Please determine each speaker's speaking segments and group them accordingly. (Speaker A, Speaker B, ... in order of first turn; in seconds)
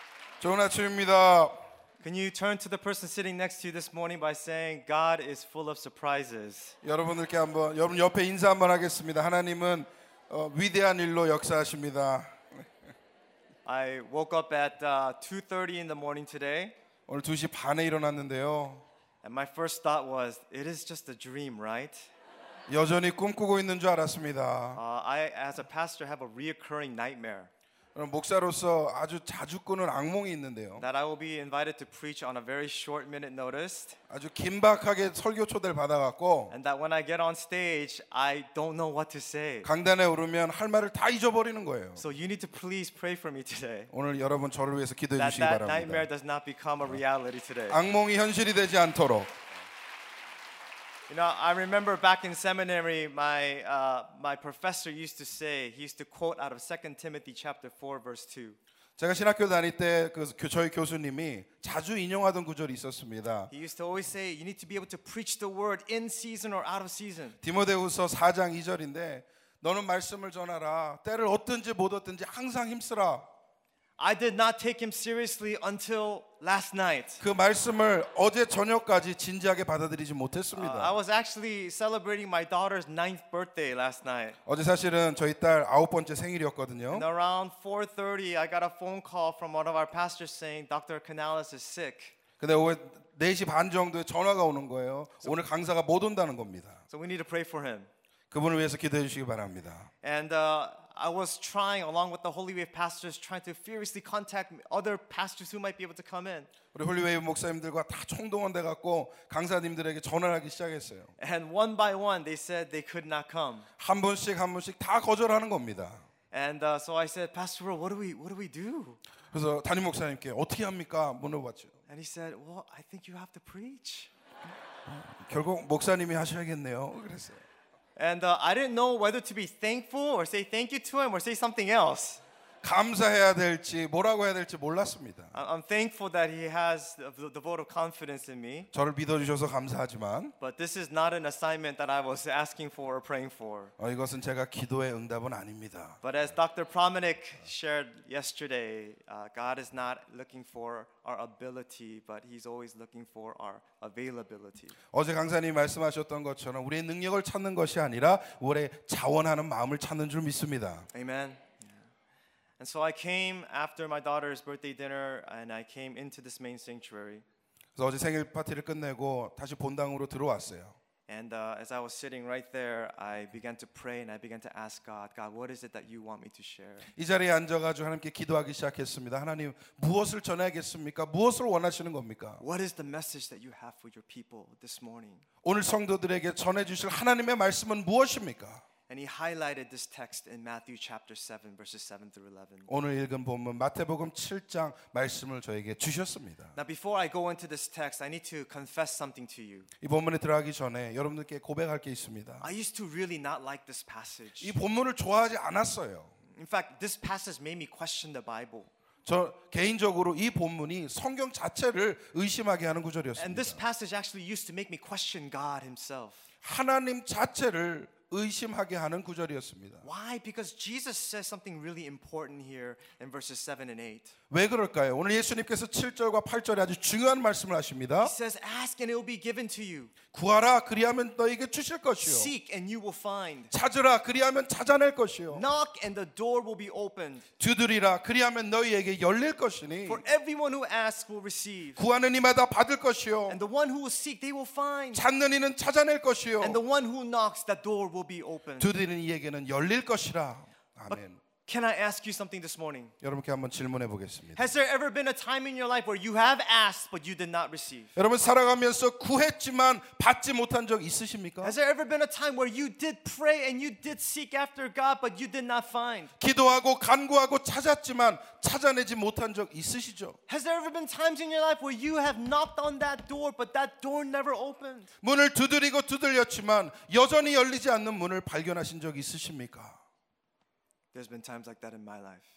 Speaker A: 0.4-1.6, 6.8-12.6, 17.1-18.8, 22.7-24.8, 27.9-30.8, 34.1-36.5, 39.6-42.0, 43.9-46.1, 47.7-49.3, 59.0-63.5, 67.4-73.3, 77.2-81.0, 84.5-87.0, 92.4-96.8, 98.3-99.9, 106.7-111.1, 113.8-116.0, 119.3-121.7, 124.9-127.4, 132.6-135.3, 138.7-140.3, 143.8-146.0, 154.9-160.9, 167.8-170.8, 176.9-182.4, 185.4-188.6, 192.7-196.6, 199.8-202.5, 204.4-206.1, 209.0-213.6, 216.4-219.8, 224.3-228.1, 230.1-232.3, 233.5-235.4, 237.4-240.0, 241.8-243.4, 244.9-246.6, 248.6-251.2, 253.0-254.5, 257.9-261.5, 266.2-270.2, 275.0-279.8
Speaker B: 2.0-6.8, 13.6-16.7, 19.2-22.1, 24.7-27.5, 30.8-34.0, 36.5-39.7, 42.0-43.9, 45.2-47.8, 51.1-58.6, 63.5-67.4, 74.0-77.2, 80.5-84.4, 86.9-92.1, 96.9-97.9, 100.0-106.5, 111.2-113.7, 116.3-119.0, 121.9-124.1, 128.0-132.2, 135.3-138.7, 140.4-143.7, 146.0-154.7, 160.9-161.8, 162.6-167.2, 171.1-176.9, 182.4-185.2, 188.9-192.7, 196.6-199.7, 202.4-204.6, 206.3-208.7, 213.2-216.3, 219.8-224.1, 228.0-229.9, 232.0-233.5, 235.3-237.2, 239.8-241.8, 243.3-245.0, 246.4-248.7, 251.4-252.9, 254.3-257.9, 261.4-266.1, 270.3-274.9, 280.9-282.2